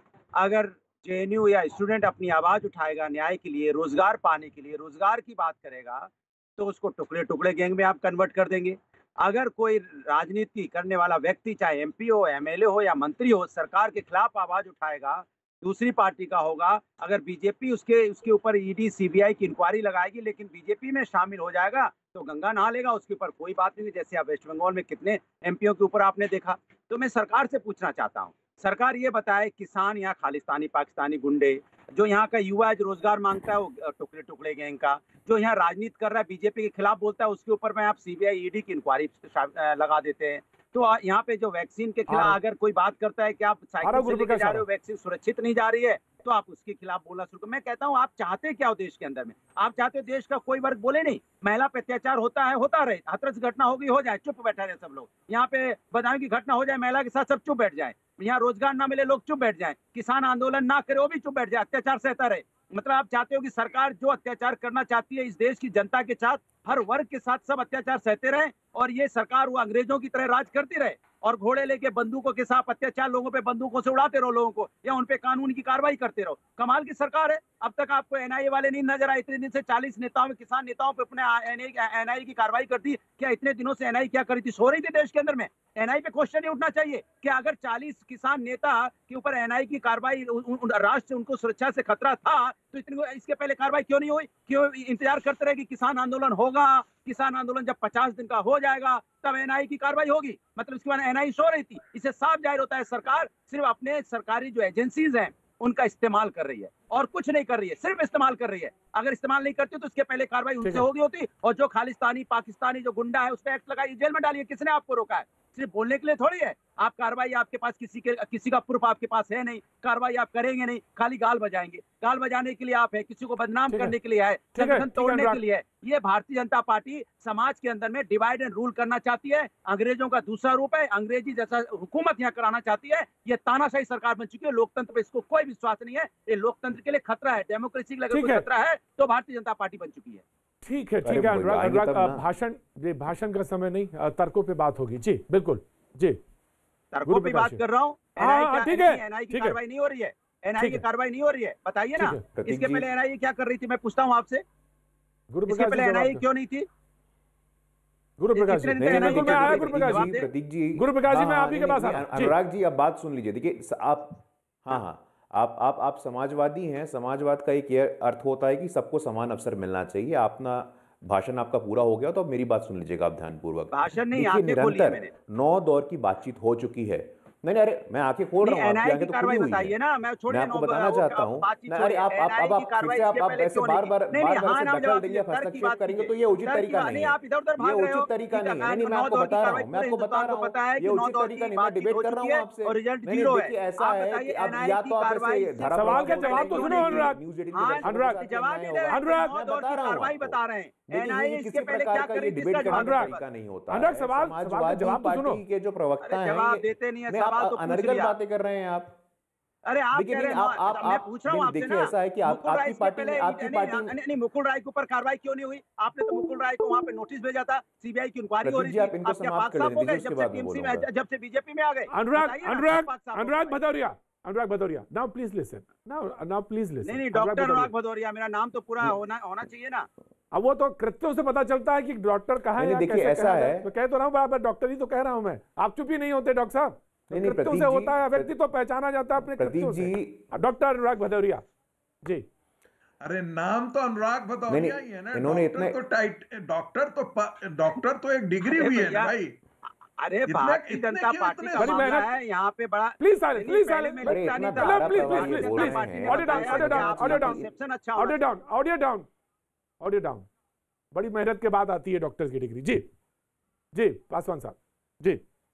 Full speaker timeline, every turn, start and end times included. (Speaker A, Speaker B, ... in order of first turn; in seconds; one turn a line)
Speaker A: 0.4-140.2
Speaker B: 42.1-42.4
Speaker B: 43.8-44.6
Speaker B: 110.6-110.9
Speaker B: 123.7-124.0
Speaker B: 124.6-125.4
Speaker B: 138.1-138.5
Speaker B: 140.6-146.2
Speaker C: 141.0-142.3
Speaker A: 146.9-154.4
Speaker B: 147.1-147.6
Speaker B: 148.2-149.6
Speaker B: 150.6-150.8
Speaker B: 152.0-152.2
Speaker C: 152.3-152.9
Speaker B: 155.3-156.2
Speaker A: 155.5-156.7
Speaker B: 158.2-160.1
Speaker A: 158.3-160.3
Speaker C: 158.8-179.8
Speaker B: 160.8-162.3
Speaker A: 173.7-175.1
Speaker A: 178.4-203.2
Speaker C: 180.3-200.4
Speaker B: 195.7-197.2
Speaker B: 197.8-198.2
Speaker B: 198.9-199.4
Speaker C: 200.9-209.0
Speaker B: 202.7-203.1
Speaker B: 203.7-205.4
Speaker A: 206.0-208.1
Speaker A: 209.7-223.6
Speaker C: 209.9-213.9
Speaker C: 218.4-220.9
Speaker B: 221.9-227.7
Speaker A: 226.8-229.9
Speaker B: 230.3-241.4
Speaker C: 232.6-233.7
Speaker C: 237.1-238.4
Speaker C: 239.2-240.3
Speaker D: 243.0-249.4
Speaker C: 244.5-245.8
Speaker A: 248.4-249.1
Speaker A: 250.0-258.2
Speaker D: 250.3-251.8
Speaker B: 251.6-252.1
Speaker B: 253.0-257.4
Speaker C: 254.1-257.5
Speaker B: 258.0-259.1
Speaker B: 259.8-260.3
Speaker B: 260.9-262.9
Speaker B: 263.7-265.2